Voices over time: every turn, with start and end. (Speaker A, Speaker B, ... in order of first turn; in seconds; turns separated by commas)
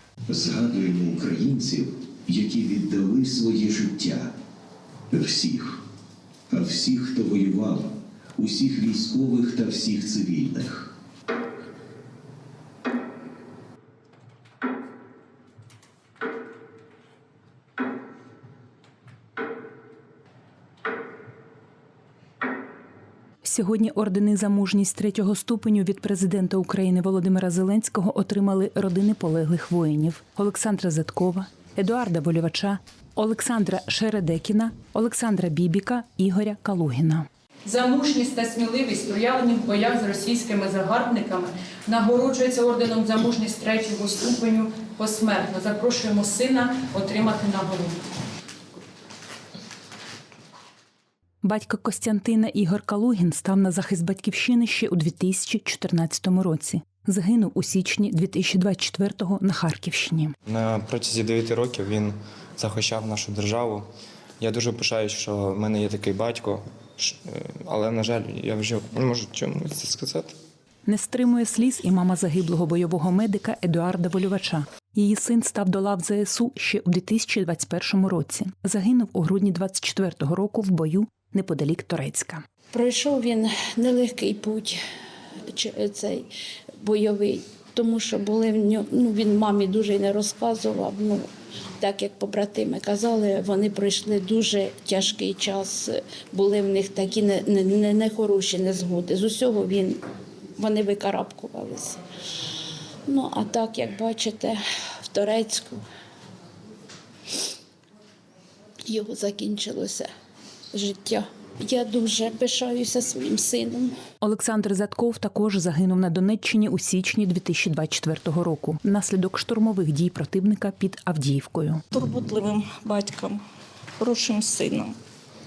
Speaker A: 0.3-4.3, Speaker A: 5.1-5.8, Speaker A: 6.5-10.9, Speaker B: 23.4-37.3, Speaker C: 37.6-48.0, Speaker B: 51.4-60.3, Speaker D: 60.5-63.9, Speaker D: 64.4-70.4, Speaker B: 70.9-82.4, Speaker E: 82.7-84.8, Speaker E: 85.5-86.3, Speaker E: 86.8-91.2, Speaker E: 91.8-100.0, Speaker E: 100.6-102.0, Speaker E: 103.1-105.8, Speaker E: 108.9-110.1, Speaker E: 110.7-114.0, Speaker B: 114.2-121.8, Speaker F: 121.9-123.4, Speaker F: 124.0-125.0